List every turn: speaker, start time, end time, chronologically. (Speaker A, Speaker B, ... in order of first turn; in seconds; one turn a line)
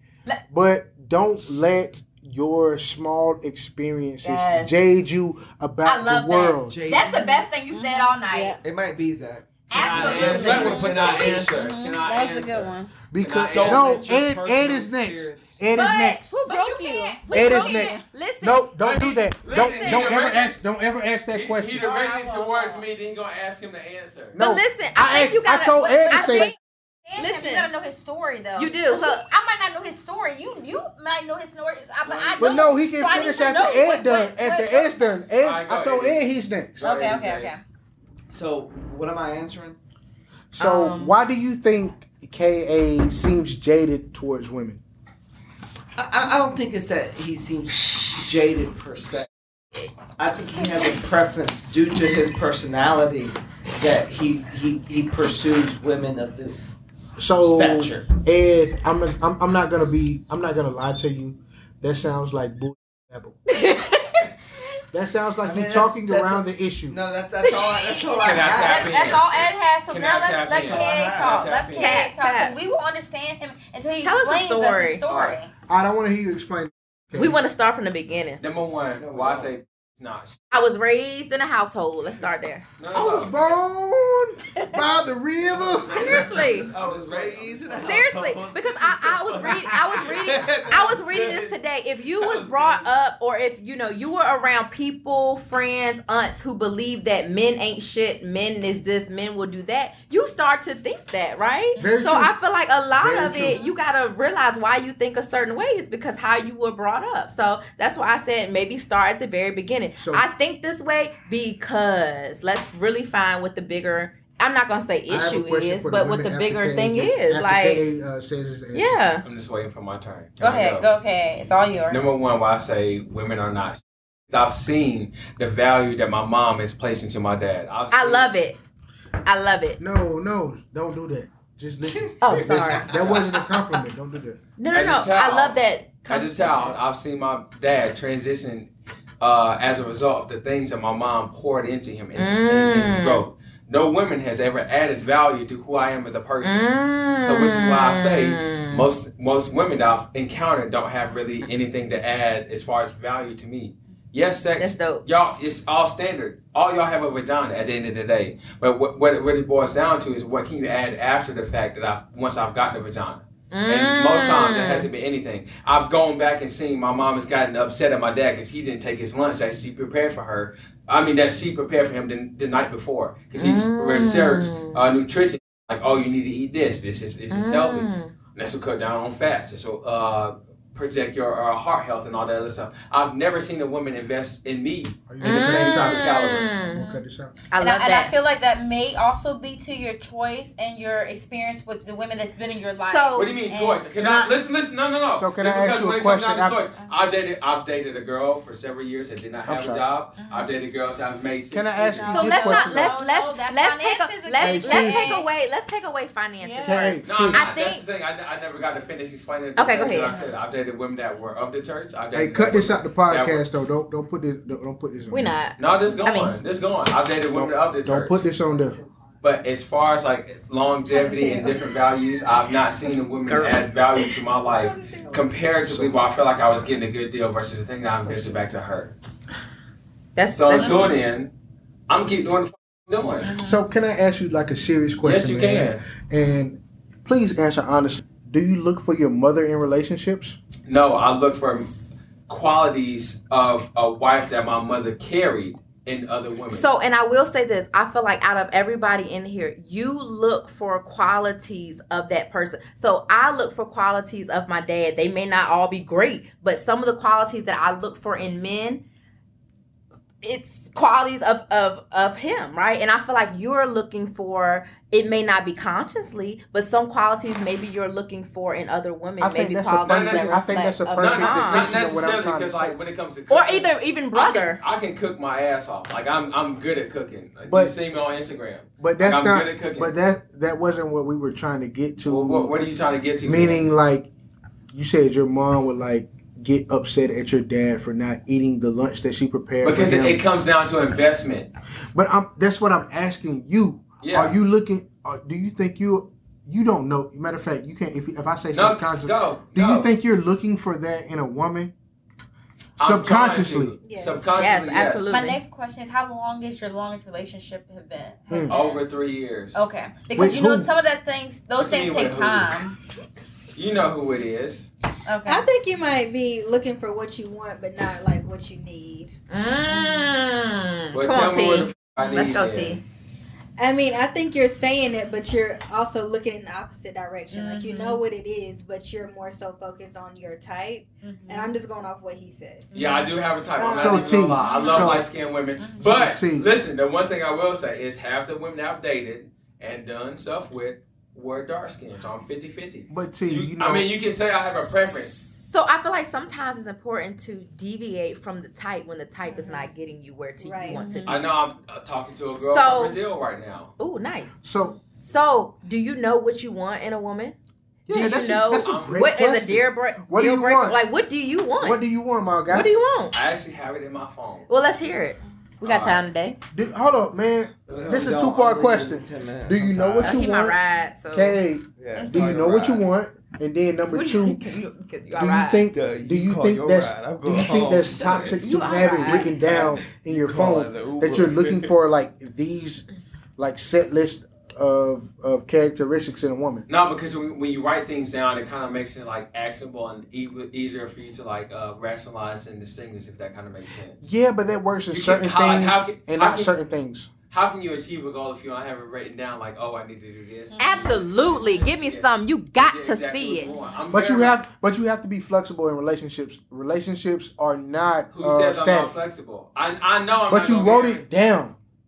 Speaker A: 0.5-6.8
Speaker B: 4.2-4.8
Speaker B: 5.8-8.6
Speaker C: 6.7-7.3
Speaker D: 6.9-8.6
Speaker C: 8.6-11.5
Speaker B: 9.7-11.0
Speaker E: 9.7-14.0
Speaker D: 9.9-12.9
Speaker A: 13.1-16.4
Speaker C: 13.5-15.6
Speaker B: 15.7-18.7
Speaker D: 16.2-18.0
Speaker A: 17.3-21.8
Speaker E: 18.8-20.6
Speaker B: 19.5-20.2
Speaker E: 21.3-24.4
Speaker D: 21.8-22.8
Speaker A: 24.3-26.5
Speaker B: 24.4-26.6
Speaker D: 26.0-26.6
Speaker D: 27.1-35.1
Speaker B: 27.2-27.7
Speaker B: 28.6-29.2
Speaker C: 32.0-32.7
Speaker A: 32.4-36.8
Speaker E: 35.4-36.2
Speaker E: 36.8-37.5
Speaker D: 36.8-37.6
Speaker C: 38.3-39.8
Speaker A: 40.5-44.8
Speaker B: 40.6-41.1
Speaker C: 46.0-49.3
Speaker C: 50.1-56.8
Speaker A: 57.2-63.4
Speaker C: 57.4-58.1
Speaker D: 63.5-64.3
Speaker A: 64.9-67.0
Speaker C: 65.4-69.2
Speaker D: 67.7-75.5
Speaker E: 68.2-69.3
Speaker E: 69.9-71.9
Speaker C: 70.5-71.6
Speaker B: 71.8-72.5
Speaker B: 74.0-75.0
Speaker E: 75.1-75.4
Speaker A: 75.7-77.3
Speaker B: 77.1-78.4
Speaker E: 78.4-80.4
Speaker C: 79.0-79.5
Speaker B: 80.5-82.6
Speaker E: 82.8-83.4
Speaker A: 82.9-86.5
Speaker C: 85.5-91.6
Speaker B: 85.9-86.7
Speaker E: 86.2-88.1
Speaker B: 87.8-117.8
Speaker C: 92.1-92.9
Speaker A: 101.8-102.3
Speaker A: 103.0-103.6
Speaker A: 110.0-110.2
Speaker A: 115.1-119.0
Speaker B: 118.7-119.2
Speaker E: 119.2-120.9
Speaker D: 120.4-122.1
Speaker E: 121.9-128.3
Speaker B: 127.9-128.6
Speaker B: 129.2-129.8
Speaker A: 129.8-134.4
Speaker C: 131.9-133.4
Speaker B: 132.2-133.2
Speaker B: 134.6-136.8
Speaker E: 134.7-138.7
Speaker E: 139.2-146.6
Speaker B: 142.2-143.2
Speaker B: 146.4-148.9
Speaker E: 147.2-186.5
Speaker B: 154.6-155.0
Speaker B: 163.5-164.9
Speaker B: 173.3-174.8
Speaker B: 177.3-178.1
Speaker A: 185.1-187.3
Speaker B: 185.2-186.8
Speaker D: 186.8-187.0
Speaker B: 187.5-188.1
Speaker D: 187.6-194.1
Speaker B: 192.8-193.3
Speaker E: 193.1-202.2
Speaker A: 195.1-196.6
Speaker A: 199.4-199.8
Speaker D: 200.2-200.5
Speaker A: 201.5-203.0
Speaker D: 201.9-205.3
Speaker B: 202.0-207.8
Speaker A: 204.4-205.2
Speaker D: 206.4-206.9
Speaker A: 206.6-207.4
Speaker E: 207.0-213.4
Speaker B: 209.6-210.2
Speaker A: 212.1-215.3
Speaker B: 215.1-216.3
Speaker E: 215.6-218.2
Speaker A: 217.3-218.8
Speaker E: 219.2-228.9
Speaker B: 221.1-221.4
Speaker F: 221.2-221.5
Speaker B: 223.2-224.1
Speaker F: 224.8-225.1
Speaker A: 225.6-226.0
Speaker B: 230.2-230.9
Speaker E: 230.3-231.3
Speaker D: 230.6-230.9
Speaker E: 231.9-233.3
Speaker D: 233.2-233.6
Speaker A: 233.4-240.4
Speaker E: 235.0-235.8
Speaker E: 240.7-241.7
Speaker E: 242.3-246.6
Speaker B: 246.5-258.8
Speaker B: 260.2-271.7
Speaker A: 269.2-272.8
Speaker E: 269.8-279.9
Speaker B: 273.3-274.6
Speaker A: 277.5-277.7
Speaker A: 278.8-282.5
Speaker E: 282.0-283.6
Speaker A: 283.2-284.1
Speaker A: 284.7-290.2
Speaker E: 289.6-291.5
Speaker A: 291.9-301.7
Speaker E: 294.0-294.4
Speaker E: 298.5-299.9
Speaker E: 302.8-305.1
Speaker A: 302.8-303.8
Speaker F: 303.8-304.3
Speaker B: 304.3-305.4
Speaker D: 305.1-308.8
Speaker A: 308.3-308.5
Speaker E: 308.5-309.6
Speaker D: 309.5-312.8
Speaker A: 310.1-310.7
Speaker E: 311.6-312.6
Speaker E: 313.5-314.7
Speaker D: 315.1-315.5
Speaker F: 315.2-319.1
Speaker B: 319.3-322.8
Speaker E: 320.9-322.8
Speaker D: 322.0-322.3
Speaker F: 323.6-332.7
Speaker D: 327.3-328.0
Speaker D: 331.0-331.5
Speaker D: 332.7-333.1
Speaker E: 332.7-345.2
Speaker F: 333.6-334.5
Speaker A: 333.7-335.1
Speaker D: 334.4-335.0
Speaker D: 335.6-335.9
Speaker A: 335.8-336.5
Speaker A: 342.9-343.9
Speaker B: 345.3-351.2
Speaker F: 349.3-349.7
Speaker F: 350.4-350.8
Speaker D: 350.7-351.1
Speaker E: 351.0-353.7
Speaker B: 352.4-353.0
Speaker B: 353.8-354.3
Speaker A: 354.4-354.8
Speaker B: 355.1-357.4
Speaker A: 357.9-360.8
Speaker B: 357.9-361.8
Speaker E: 358.6-359.0
Speaker A: 361.6-362.7
Speaker B: 362.5-363.1
Speaker E: 363.1-364.5
Speaker B: 364.5-366.4
Speaker E: 365.6-366.1
Speaker A: 366.5-370.6
Speaker C: 367.7-370.2
Speaker B: 370.0-371.4
Speaker A: 371.1-374.6
Speaker C: 371.8-372.8
Speaker D: 371.9-372.2
Speaker B: 373.9-375.7
Speaker A: 375.1-382.9
Speaker C: 375.7-381.7
Speaker B: 377.9-379.4
Speaker A: 383.4-386.7
Speaker E: 386.7-394.1
Speaker A: 394.0-397.1
Speaker E: 394.9-396.5
Speaker E: 397.3-404.4
Speaker D: 400.5-401.0
Speaker B: 400.6-403.5
Speaker A: 403.9-408.9
Speaker E: 408.1-411.1
Speaker A: 410.3-411.5